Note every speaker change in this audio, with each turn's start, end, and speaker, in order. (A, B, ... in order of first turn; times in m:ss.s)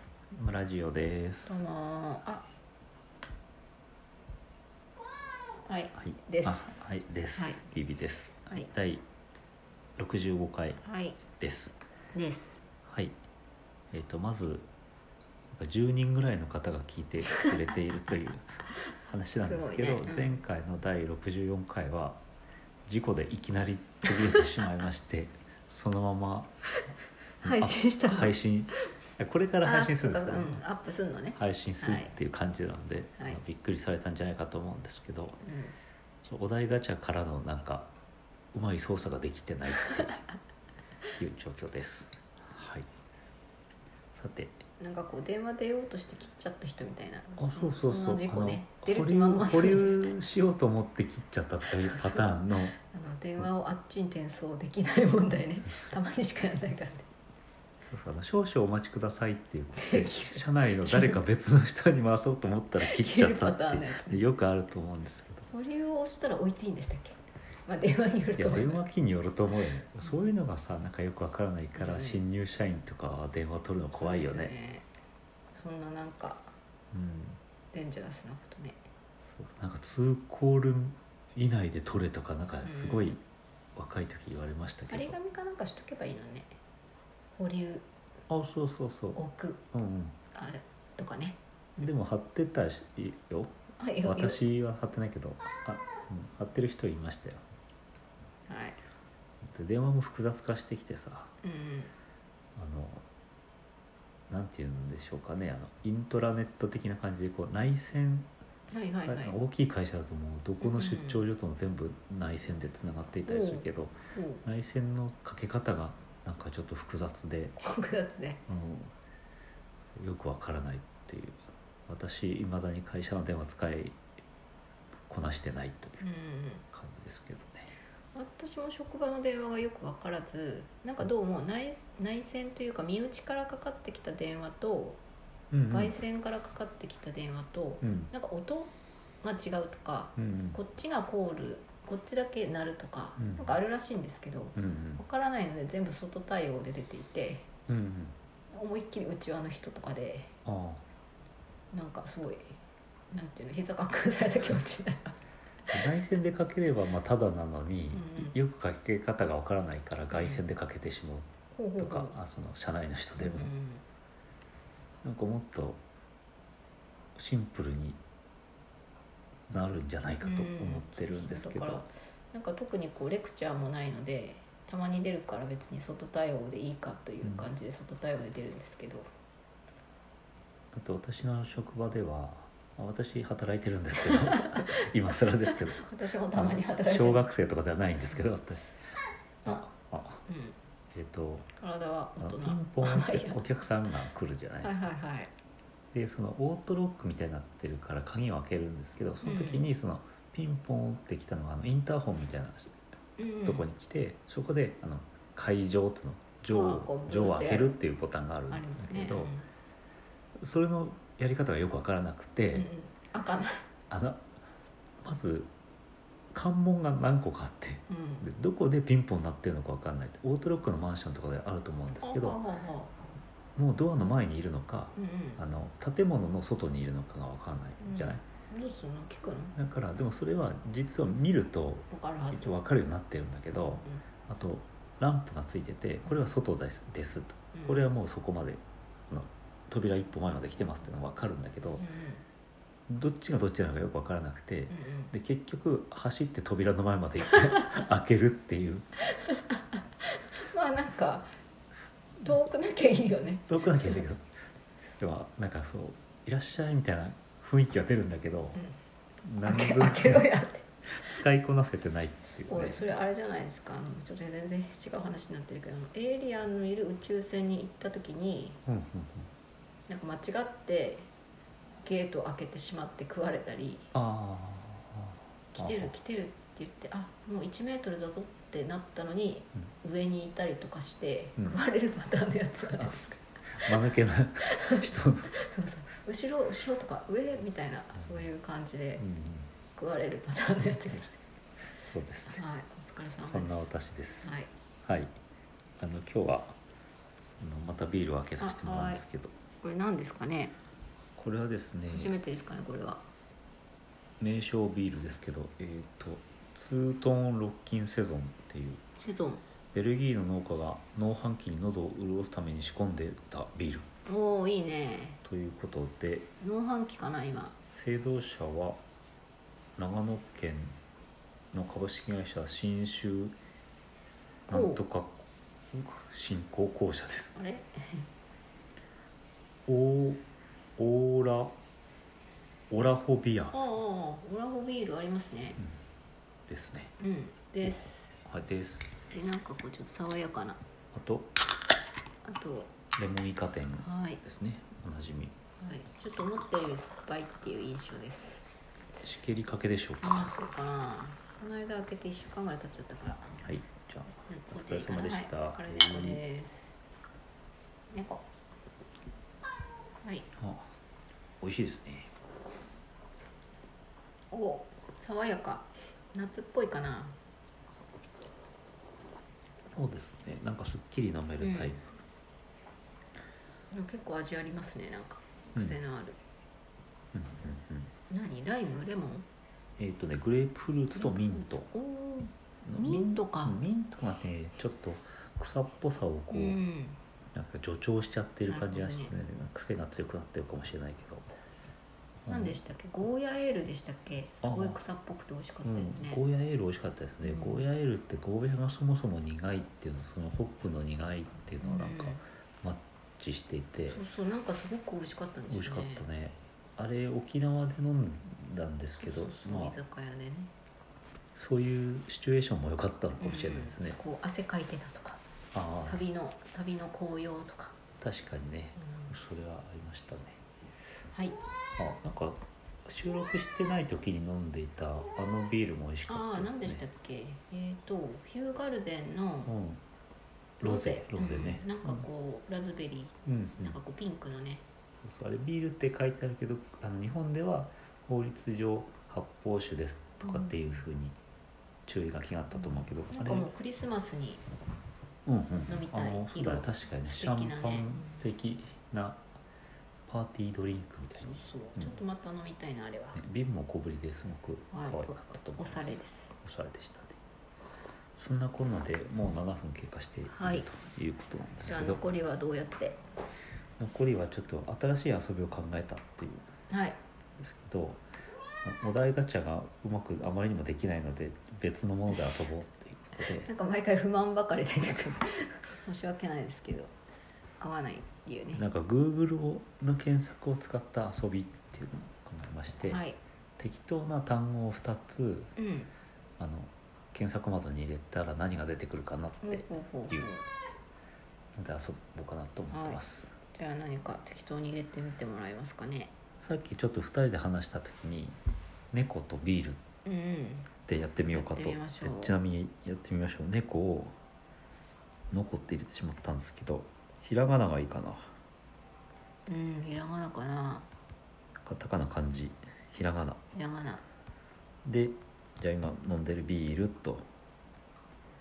0:00.3-0:01.6 A
0:01.5-0:02.5 B
0:05.6-0:07.6 B
0:06.0-0:09.0 A
0:10.0-0:11.8 A
0:10.8-0:11.2 B
0:12.1-0:12.6 B
0:12.8-0:13.1 A
0:13.9-0:14.7 A
0:15.5-0:22.2 A
0:19.4-0:20.3 B
0:22.9-0:26.5 A
0:27.4-0:28.3 B
0:27.4-0:30.6 A
0:29.6-0:32.1 B
0:31.4-0:35.4 A
0:35.4-0:35.8 B
0:36.2-0:37.9 A
0:38.5-0:40.3 A
0:41.2-0:42.9 A
0:44.1-0:44.6 A
0:44.8-0:50.1 B
0:47.4-0:52.8 A
0:51.6-0:57.1 B
0:57.9-1:05.5 A
0:59.8-1:01.2 B
1:02.8-1:04.2 B
1:05.5-1:08.8 B
1:08.4-1:14.5 A
1:11.8-1:12.2 B
1:14.0-1:14.9 B
1:15.5-1:16.5 B
1:16.9-1:17.4 A
1:17.7-1:18.8 B
1:19.2-1:23.2 A
1:22.6-1:23.2 B
1:23.8-1:25.2 A
1:24.9-1:26.6 B
1:27.3-1:27.9 B
1:28.3-1:29.2 A
1:29.1-1:29.6 B
1:29.7-1:30.2 A
1:30.3-1:31.9 B
1:31.8-1:37.4 A
1:33.8-1:34.4 B
1:38.5-1:38.8 B
1:39.4-1:41.3 A
1:41.4-1:41.9 B
1:42.6-1:43.0 A
1:44.3-1:48.3 A
1:48.7-1:49.4 B
1:49.0-1:57.6 A
1:50.6-1:51.2 B
1:53.3-1:54.4 B
1:57.6-1:58.4 B
1:58.5-1:58.9 A
1:59.8-2:04.0 A
2:05.1-2:06.0 A
2:06.0-2:06.6 B
2:06.7-2:07.7 A
2:08.1-2:15.0 B
2:15.5-2:16.0 A
2:15.7-2:27.5 B
2:17.8-2:18.1 A
2:20.2-2:20.6 A
2:23.2-2:23.6 A
2:24.6-2:25.0 A
2:27.7-2:28.2 A
2:28.5-2:30.3 B
2:30.4-2:30.8 A
2:31.7-2:32.6 B
2:33.1-2:35.2 B
2:35.7-2:43.5 A
2:37.9-2:38.4 B
2:40.1-2:40.4 B
2:41.5-2:42.2 B
2:43.2-2:43.8 B
2:45.0-2:45.8 A
2:47.2-2:48.0 A
2:49.5-2:51.8 A
2:50.2-2:59.1 B
2:57.2-2:57.5 A
3:00.7-3:08.7 A
3:04.1-3:04.6 B
3:05.5-3:07.3 B
3:09.4-3:10.2 A
3:10.3-3:10.6 B
3:10.9-3:11.5 A
3:11.6-3:13.4 B
3:12.2-3:14.8 A
3:14.6-3:15.3 B
3:15.9-3:22.8 A
3:19.2-3:19.7 B
3:23.2-3:23.6 B
3:23.4-3:29.3 A
3:26.5-3:27.8 B
3:28.5-3:29.4 B
3:30.4-3:32.7 A
3:32.5-3:33.6 B
3:33.9-3:34.3 A
3:35.0-3:35.5 A
3:36.3-3:42.4 A
3:37.9-3:38.2 B
3:42.0-3:42.9 B
3:43.6-3:48.2 A
3:44.9-3:45.4 B
3:47.8-3:49.6 B
3:49.5-4:01.8 A
3:51.9-3:52.6 B
3:57.5-3:57.9 B
4:01.8-4:02.2 B
4:02.9-4:08.9 A
4:04.7-4:05.1 B
4:09.2-4:09.5 B
4:10.4-4:11.3 B
4:12.2-4:14.0 B
4:13.5-4:14.2 A
4:15.0-4:18.6 A
4:19.2-4:20.3 A
4:19.4-4:20.6 B
4:20.9-4:22.8 A
4:22.5-4:28.6 B
4:28.6-4:29.3 A
4:29.9-4:31.1 B
4:31.8-4:33.9 B
4:33.9-4:35.9 A
4:35.5-4:43.1 B
4:42.6-4:45.3 A
4:44.4-4:49.0 B
4:49.0-4:49.5 A
4:49.8-4:51.2 B
4:51.8-4:52.4 A
4:52.3-4:53.7 B
4:53.2-4:54.3 A
4:54.2-4:54.5 B
4:54.8-4:55.2 A
4:55.8-4:56.6 A
4:57.4-4:59.3 A
4:58.4-4:59.0 B
4:59.6-5:00.6 B
5:01.2-5:02.1 A
5:01.9-5:03.0 B
5:04.2-5:08.8 A
5:09.0-5:09.4 B
5:09.7-5:13.8 A
5:14.0-5:15.2 B
5:15.2-5:16.3 A
5:16.4-5:17.6 B
5:17.7-5:18.8 A
5:19.8-5:20.8 A
5:21.5-5:23.4 A
5:24.5-5:27.4 A
5:24.5-5:24.8 B
5:27.4-5:28.1 B
5:29.7-5:30.2 A
5:30.8-5:31.6 A
5:32.7-5:33.7 A
5:33.5-5:35.6 B
5:36.5-5:36.9 A
5:37.0-5:38.1 B
5:37.6-5:38.9 A
5:39.1-5:40.6 B
5:40.9-5:41.3 A
5:42.2-5:42.7 B
5:43.0-5:45.3 A
5:43.8-5:44.2 B
5:45.6-5:48.5 B
5:49.0-5:50.3 A
5:50.0-5:53.4 B
5:53.4-5:56.2 A
5:54.3-5:56.8 B
5:57.9-5:58.2 B
6:00.0-6:00.3 B
6:00.4-6:00.7 A
6:01.4-6:02.1 A
6:04.3-6:07.2 B
6:09.7-6:11.8 A
6:11.4-6:11.7 B
6:13.7-6:16.2 B
6:17.1-6:17.9 A
6:18.1-6:19.2 B
6:19.8-6:21.7 A
6:20.9-6:23.6 B
6:22.6-6:26.6 A
6:26.3-6:27.0 B
6:27.3-6:31.3 A
6:28.5-6:29.1 B
6:32.2-6:32.6 A
6:32.3-6:36.2 B
6:34.4-6:34.8 A
6:35.6-6:44.0 A
6:37.2-6:37.6 B
6:41.6-6:42.2 B
6:43.9-6:46.0 B
6:45.5-6:49.8 A
6:49.0-6:50.5 B
6:51.4-6:54.0 A
6:53.2-6:55.2 B
6:55.5-6:56.0 A
6:55.8-6:57.8 B
6:58.0-7:00.4 A
6:58.8-6:59.1 B
7:01.1-7:01.4 B
7:01.8-7:06.8 A
7:06.1-7:09.5 B
7:09.4-7:09.8 A
7:10.6-7:12.0 A
7:10.6-7:14.6 B
7:13.2-7:13.8 A
7:15.0-7:21.2 A
7:20.3-7:20.6 B
7:21.8-7:23.5 A
7:23.1-7:24.4 B
7:25.2-7:29.2 A
7:25.7-7:28.0 B
7:30.1-7:32.0 A
7:31.3-7:33.2 B
7:33.1-7:37.2 A
7:34.7-7:36.4 B
7:38.2-7:42.0 A
7:40.3-7:40.7 B
7:41.6-7:43.0 B
7:43.8-7:46.5 A
7:46.7-7:47.0 B
7:47.4-7:48.0 A
7:48.6-7:53.5 A
7:53.4-7:56.9 B
7:57.6-7:58.6 B
7:58.5-8:03.0 A
8:02.8-8:03.2 B
8:03.6-8:05.5 A
8:05.6-8:05.9 B
8:06.4-8:10.4 A
8:09.4-8:10.4 B
8:11.5-8:13.4 A
8:12.7-8:13.0 B
8:13.5-8:16.1 B
8:16.4-8:18.4 A
8:18.9-8:19.8 A
8:20.0-8:20.7 B
8:20.9-8:24.2 A
8:21.3-8:22.4 B
8:25.3-8:28.3 A
8:29.5-8:30.9 B
8:31.6-8:33.4 A
8:33.5-8:34.0 B
8:34.8-8:37.3 A